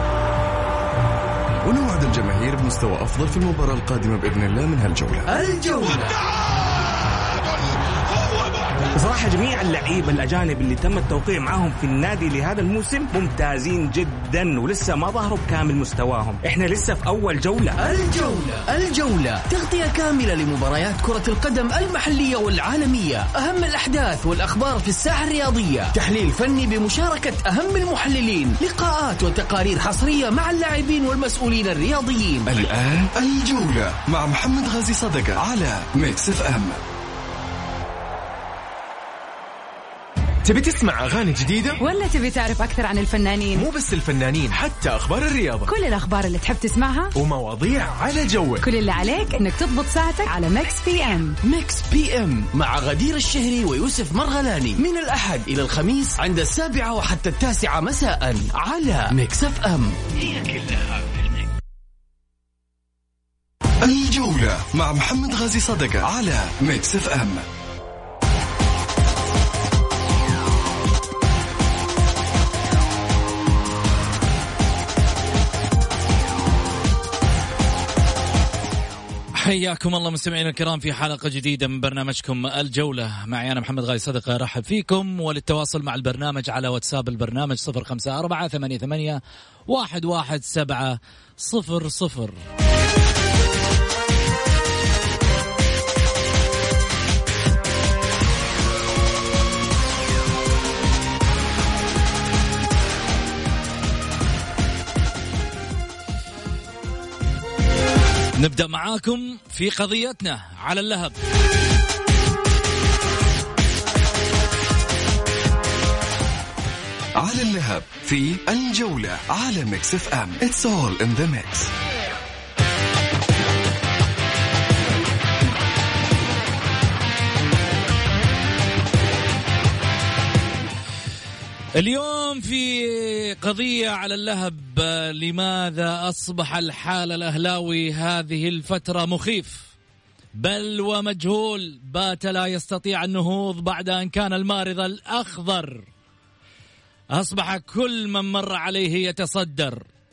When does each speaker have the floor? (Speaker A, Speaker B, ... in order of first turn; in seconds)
Speaker A: 1.6-5.3, 32.5-36.8, 63.8-67.5, 117.2-121.7
Speaker B: 5.3-6.1, 17.8-32.5, 51.4-60.6
Speaker C: 8.9-17.8
Speaker D: 40.4-41.8, 43.5-45.7, 47.1-48.7
Speaker E: 41.8-43.7, 45.6-47.1, 48.6-51.4
Speaker F: 79.4-92.4, 108.4-111.2, 131.8-139.7, 140.3-145.8, 147.1-149.8